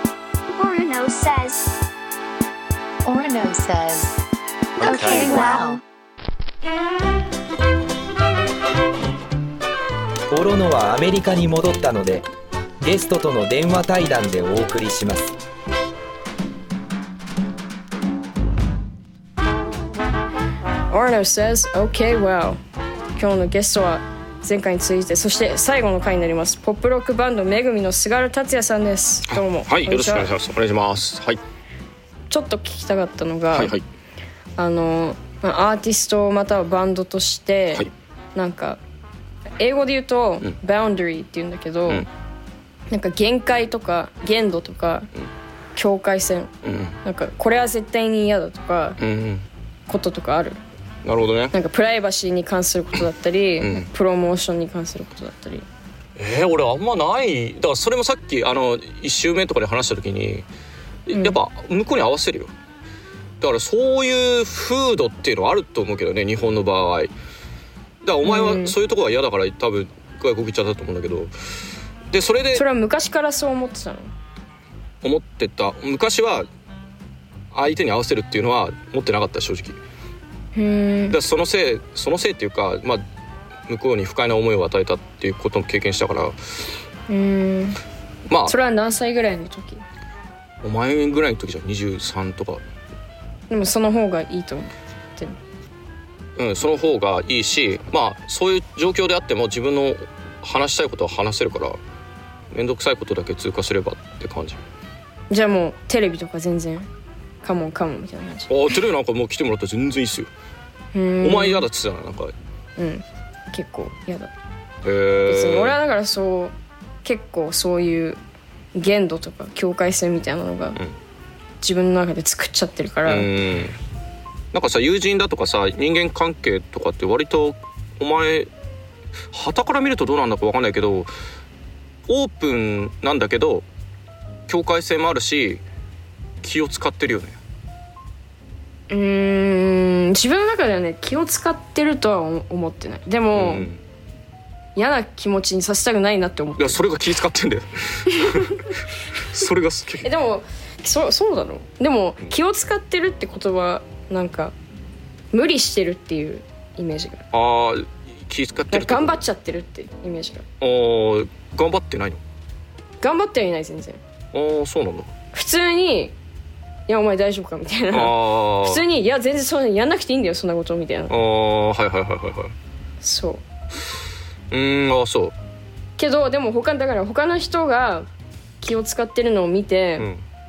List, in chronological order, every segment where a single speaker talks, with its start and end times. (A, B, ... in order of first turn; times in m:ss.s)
0:00.5-0:01.7 A
0:03.0-0:04.1 B
0:04.8-0:05.8 B
0:04.8-0:05.7 A
0:10.3-0:12.3 C
0:12.8-0:15.3 C
0:20.9-0:22.6 D
0:23.2-0:30.3 D
0:29.3-0:31.4 E
0:32.3-0:33.8 D
0:33.5-0:33.8 E
0:34.6-0:38.8 D
0:39.6-0:42.1 D
0:42.9-0:45.1 D
0:45.8-0:46.5 D
0:46.6-0:47.0 E
0:47.0-0:49.0 D
0:49.0-0:49.4 E
0:49.9-0:50.6 D
0:51.0-0:51.5 E
0:51.5-0:55.6 D
0:53.6-0:53.9 E
0:56.2-1:00.5 E
1:01.1-1:02.5 E
1:01.1-1:01.4 D
1:03.4-1:07.1 E
1:08.0-1:11.3 E
1:08.2-1:08.8 D
1:12.1-1:12.6 E
1:12.5-1:14.1 D
1:15.0-1:16.5 E
1:17.5-1:19.8 E
1:20.5-1:21.2 D
1:21.1-1:23.0 E
1:23.7-1:26.4 E
1:27.1-1:27.8 D
1:28.4-1:29.8 D
1:30.6-1:32.6 E
1:33.5-1:35.4 D
1:36.4-1:41.8 E
1:42.5-1:44.6 E
1:45.3-1:46.9 D
1:47.4-1:48.5 D
1:48.5-1:50.3 E
1:50.9-1:51.7 D
1:51.2-1:52.3 E
1:52.8-1:54.3 D
1:54.8-1:55.8 E
1:55.2-1:58.2 D
1:58.7-2:00.8 D
2:01.6-2:03.3 D
2:03.0-2:03.8 E
2:04.5-2:08.5 E
2:09.3-2:11.1 E
2:12.1-2:13.6 E
2:14.5-2:15.6 E
2:16.4-2:17.4 E
2:18.9-2:23.7 D
2:23.3-2:23.8 E
2:24.7-2:26.8 D
2:26.6-2:28.7 E
2:29.3-2:30.1 E
2:30.0-2:34.5 D
2:35.3-2:37.2 D
2:37.3-2:39.2 E
2:38.7-2:40.4 D
2:40.6-2:42.2 E
2:43.0-2:44.0 D
2:44.3-2:45.1 E
2:45.3-2:46.1 D
2:46.9-2:51.1 D
2:47.9-2:48.8 E
2:51.1-2:52.5 E
2:53.0-2:53.4 D
2:54.5-2:55.3 E
2:56.0-2:58.1 D
2:58.6-3:00.1 D
3:00.0-3:00.2 E